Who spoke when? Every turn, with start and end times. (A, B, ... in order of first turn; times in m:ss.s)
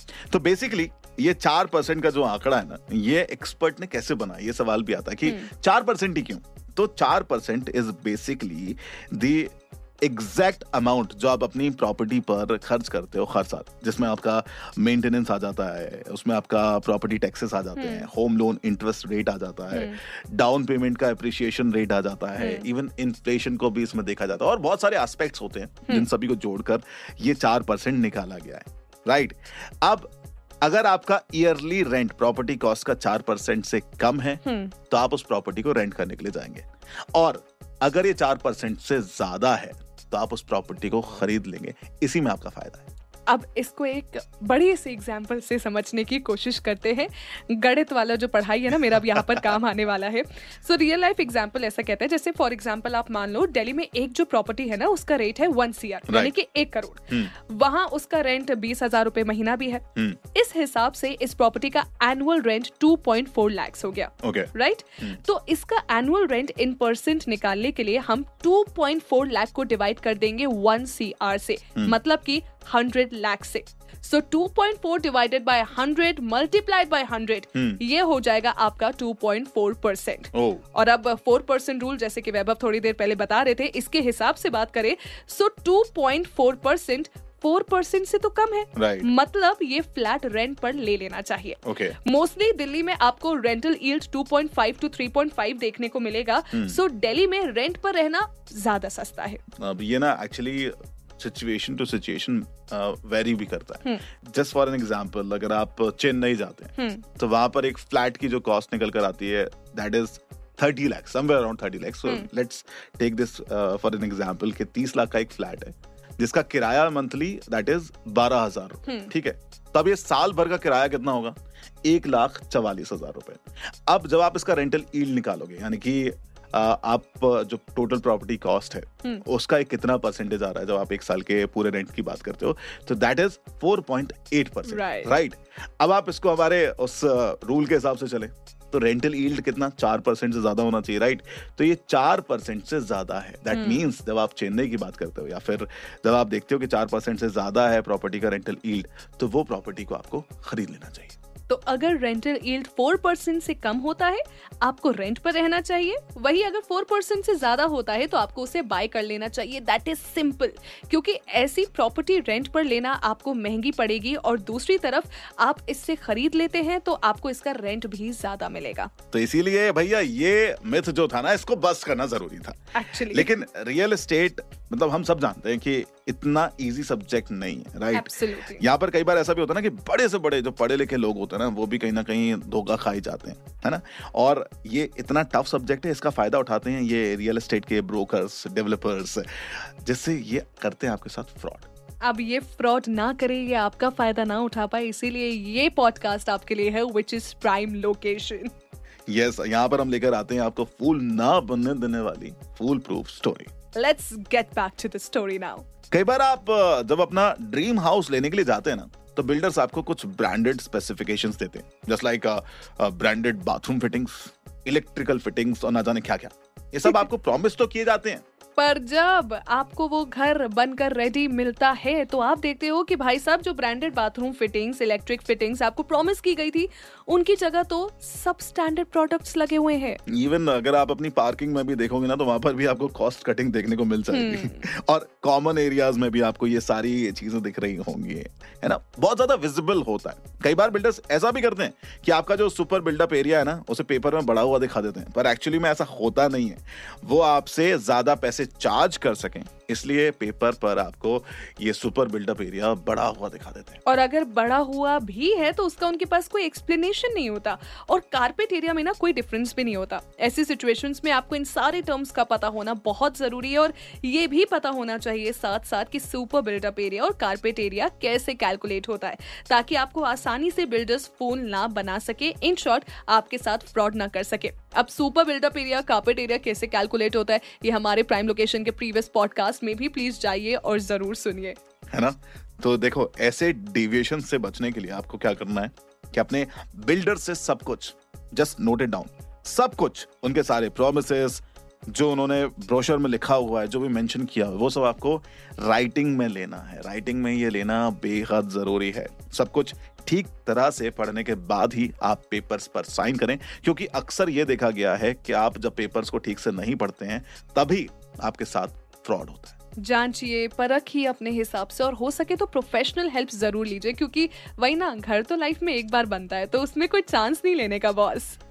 0:00.3-0:30.1 A
0:17.8-0:18.1 B
0:19.7-0:20.0 B
0:22.4-0:22.7 B
0:30.6-0:42.9 A
0:34.4-0:34.7 B
0:43.3-1:39.4 B
0:48.9-0:49.6 A
0:56.1-0:56.3 A
1:04.2-1:05.2 A
1:17.5-1:17.8 A
1:20.3-1:20.6 A
1:28.8-1:29.1 A
1:31.6-1:32.0 A
1:36.5-1:36.8 A
1:39.6-2:31.2 A
1:46.8-1:47.0 B
1:58.9-1:59.1 B
2:14.6-2:15.1 B
2:23.5-2:23.8 B
2:31.5-2:48.9 B
2:49.1-3:11.7 A
2:52.8-2:53.3 B
2:57.9-2:58.6 B
3:12.0-3:18.5 B
3:19.1-3:23.5 A
3:23.8-3:25.7 B
3:25.9-3:38.2 A
3:38.6-3:50.0 B
3:50.1-4:13.8 A
3:54.1-3:54.6 B
4:13.9-4:41.6 B
4:41.9-5:09.6 A
5:09.8-5:18.4 B